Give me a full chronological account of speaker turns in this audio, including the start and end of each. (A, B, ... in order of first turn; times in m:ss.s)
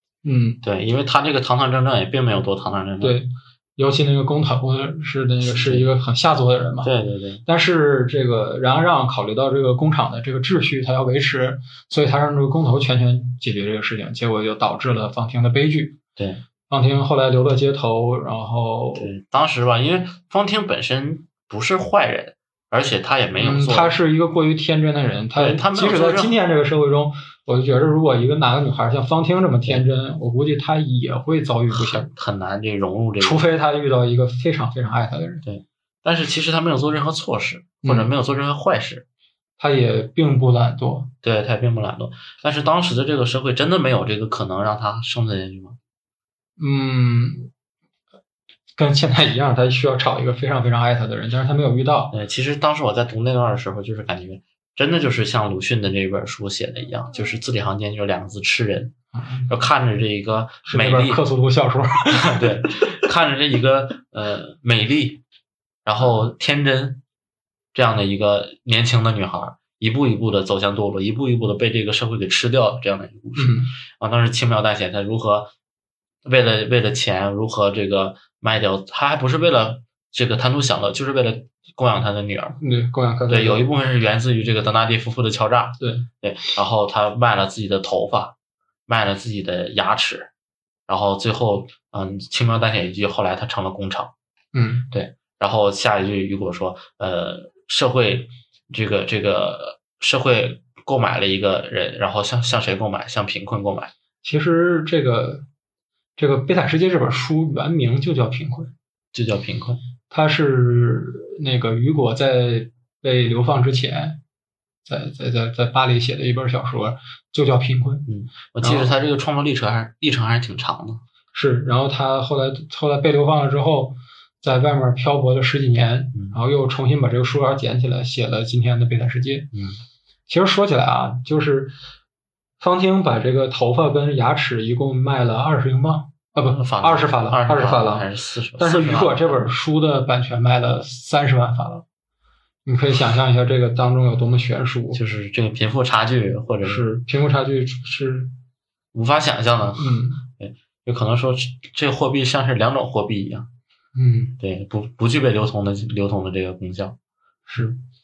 0:00.2-0:00.6 A
0:00.6-0:03.2 B
0:03.0-0:06.9 A
0:05.4-0:05.9 B
0:06.8-0:07.4 B
0:07.4-0:16.0 A
0:16.2-0:16.4 B
0:16.7-0:19.1 A
0:19.0-0:23.9 B
0:23.4-0:32.1 A
0:25.3-0:26.3 B
0:31.7-0:33.4 B
0:33.2-0:35.4 A
0:35.4-0:39.0 B
0:37.8-0:38.1 A
0:39.6-0:41.1 A
0:41.2-0:45.8 B
0:46.6-0:47.5 A
0:48.8-0:52.1 A
0:52.1-0:58.9 B
0:59.5-1:01.2 B
1:00.6-1:02.9 A
1:02.2-1:05.2 B
1:05.8-1:07.0 B
1:07.7-1:15.5 B
1:13.4-1:13.7 A
1:16.2-1:22.6 B
1:22.6-1:23.6 A
1:23.3-1:28.3 B
1:25.8-1:26.0 A
1:28.9-1:30.3 B
1:30.9-1:34.1 B
1:34.5-1:34.9 A
1:34.9-1:43.9 B
1:44.2-1:45.4 A
1:46.2-1:48.7 A
1:49.1-1:49.8 B
1:50.1-1:54.2 A
1:54.8-1:58.1 A
1:58.1-2:01.0 B
1:58.6-1:58.9 A
2:01.3-2:09.5 A
2:09.5-2:09.8 B
2:10.3-2:11.7 A
2:12.6-2:18.1 A
2:16.4-2:19.5 B
2:18.6-2:21.8 A
2:22.6-2:25.0 A
2:24.9-2:26.8 B
2:26.6-2:28.3 A
2:28.9-2:33.5 B
2:29.8-2:30.2 A
2:33.9-2:34.4 A
2:34.4-2:37.0 B
2:37.5-2:37.8 A